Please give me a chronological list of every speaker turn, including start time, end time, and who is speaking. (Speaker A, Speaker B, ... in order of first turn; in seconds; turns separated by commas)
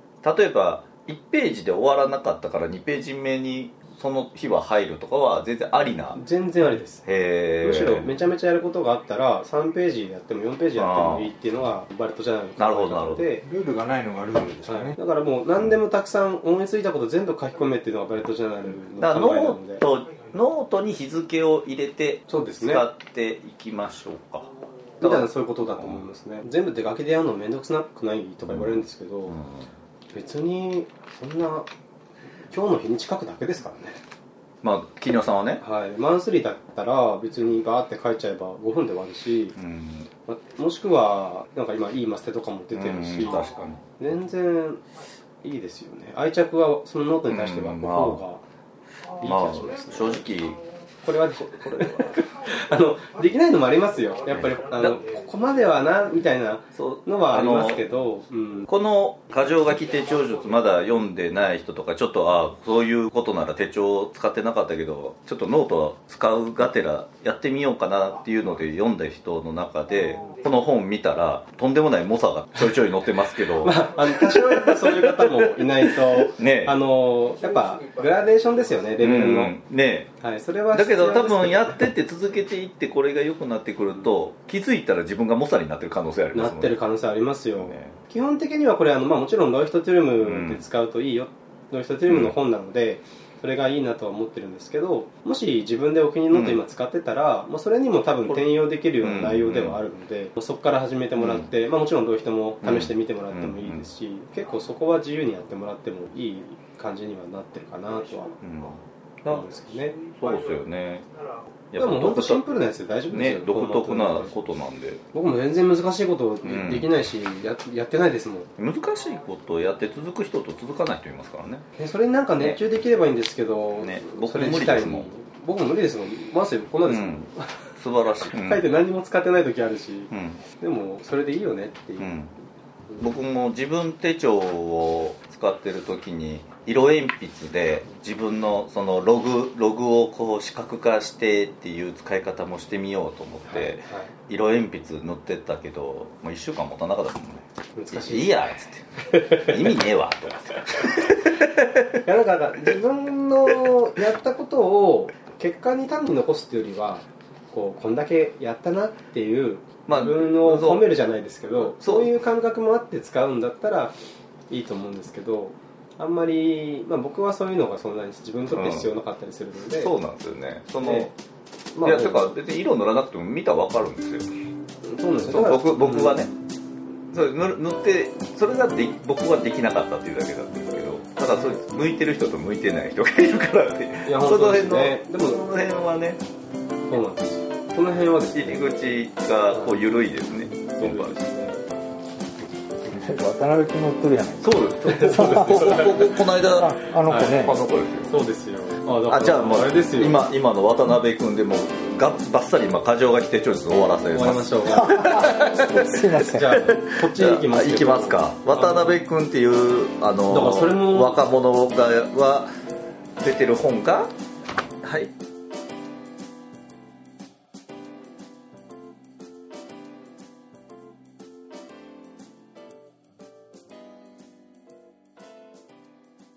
Speaker A: 0.2-6.2, Speaker B: 6.1-7.0, Speaker A: 7.0-8.1, Speaker B: 7.6-13.4, Speaker A: 10.8-11.3, Speaker A: 12.6-13.2, Speaker C: 13.4-15.0, Speaker B: 14.7-19.8, Speaker A: 19.0-26.0, Speaker B: 22.3-22.8, Speaker B: 25.0-29.4, Speaker A: 28.5-29.7, Speaker B: 30.1-31.7, Speaker B: 32.5-34.0, Speaker A: 34.6-35.6, Speaker B: 35.6-39.5, Speaker A: 39.6-40.1, Speaker B: 40.3-43.4, Speaker A: 42.7-43.8, Speaker B: 44.0-44.8, Speaker B: 45.4-48.4, Speaker A: 47.3-48.2, Speaker B: 49.2-50.2, Speaker A: 49.2-50.6, Speaker B: 51.0-58.7, Speaker A: 51.6-52.0, Speaker A: 54.3-55.0, Speaker A: 56.7-57.8, Speaker A: 58.7-76.7, Speaker B: 73.6-79.5, Speaker A: 79.0-80.1, Speaker B: 80.2-81.8, Speaker A: 80.7-86.8, Speaker B: 86.3-108.3, Speaker A: 87.6-88.0, Speaker A: 90.2-90.6, Speaker A: 92.1-92.3, Speaker A: 96.3-96.6, Speaker A: 99.0-99.8, Speaker A: 101.2-101.5, Speaker A: 102.6-103.8, Speaker A: 108.4-109.5, Speaker B: 109.3-110.0, Speaker A: 110.0-111.0, Speaker A: 111.7-112.5, Speaker B: 111.8-114.3, Speaker A: 113.1-115.0, Speaker B: 115.1-118.5, Speaker A: 116.4-116.9, Speaker A: 118.6-121.6, Speaker B: 121.8-127.5, Speaker A: 123.8-125.1, Speaker A: 126.8-128.7, Speaker B: 128.3-132.1, Speaker A: 130.1-130.4, Speaker A: 132.0-132.3, Speaker A: 133.0-151.9, Speaker B: 143.5-144.1, Speaker B: 147.8-148.3, Speaker B: 149.1-149.6, Speaker B: 152.0-163.9, Speaker A: 159.9-160.9, Speaker A: 161.6-162.1, Speaker B: 164.5-169.9, Speaker A: 168.5-168.9, Speaker A: 169.8-171.1, Speaker B: 170.8-171.1, Speaker B: 171.7-172.2, Speaker A: 171.8-174.3, Speaker B: 174.8-176.2, Speaker A: 175.3-176.3, Speaker A: 177.1-186.2, Speaker B: 184.0-185.4, Speaker B: 186.9-188.7, Speaker A: 188.3-191.2, Speaker B: 189.5-189.8, Speaker B: 190.7-191.6, Speaker C: 192.8-197.6, Speaker A: 194.4-198.2, Speaker B: 194.8-196.1, Speaker B: 197.1-197.4, Speaker B: 198.1-200.3, Speaker A: 199.1-212.5, Speaker B: 204.1-209.0, Speaker C: 204.7-206.6, Speaker B: 210.3-211.2, Speaker A: 213.2-214.1, Speaker A: 214.8-215.1